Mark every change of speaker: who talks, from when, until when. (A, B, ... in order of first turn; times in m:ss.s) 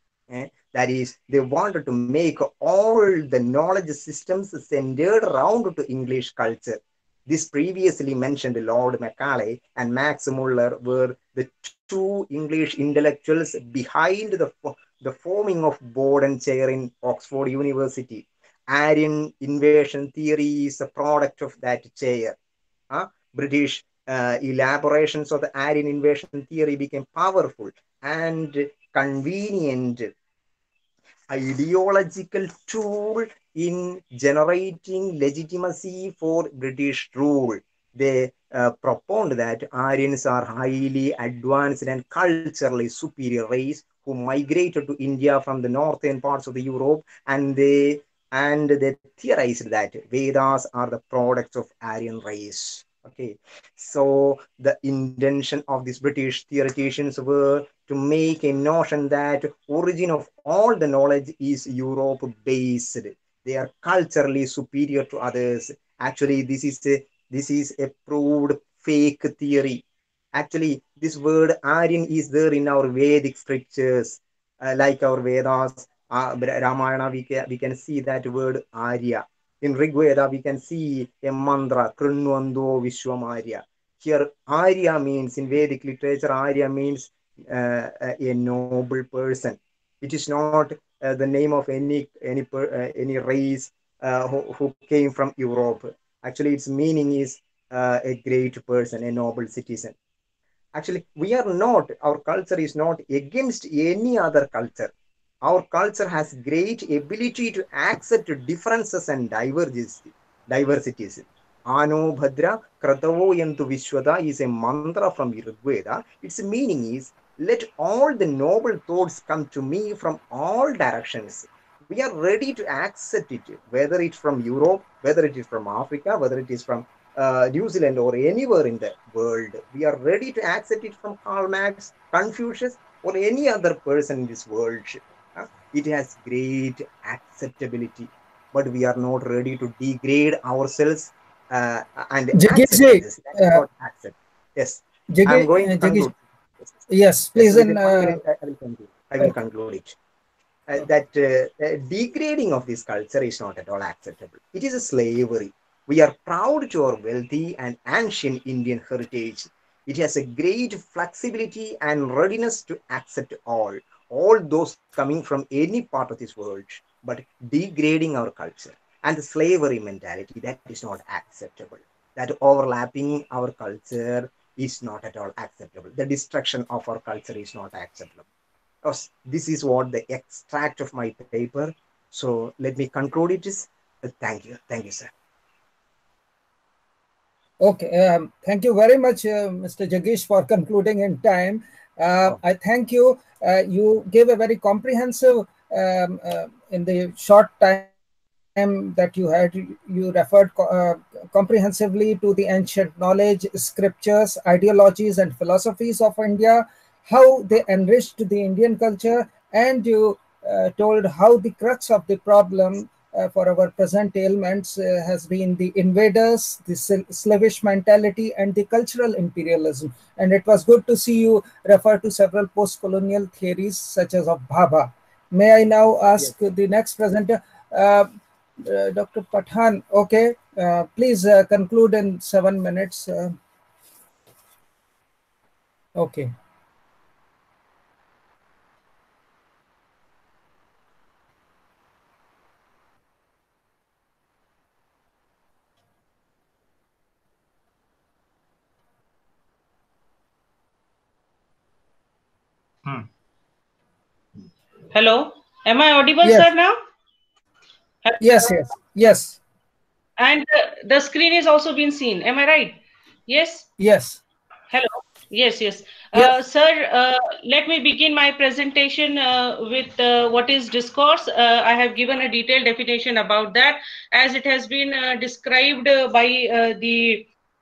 0:00.3-0:22.4 A
0:22.9-0:30.1 A
0:31.3-1:09.8 A
1:10.3-1:40.0 A
1:40.8-1:44.9 A
1:45.4-2:26.2 A
2:22.4-2:23.6 B
2:25.1-2:26.1 B
2:26.9-2:28.2 B
2:27.4-2:30.0 A
2:30.7-2:58.2 A
2:58.8-3:05.1 A
3:07.6-3:17.9 B
3:18.6-3:48.1 B
3:48.6-3:53.4 B
3:56.0-3:56.3 B
4:14.9-4:16.8 C
4:16.2-4:16.5 B
4:18.0-4:18.5 C
4:18.2-4:19.4 B
4:20.2-4:23.7 C
4:23.8-4:24.2 B
4:24.7-4:37.3 C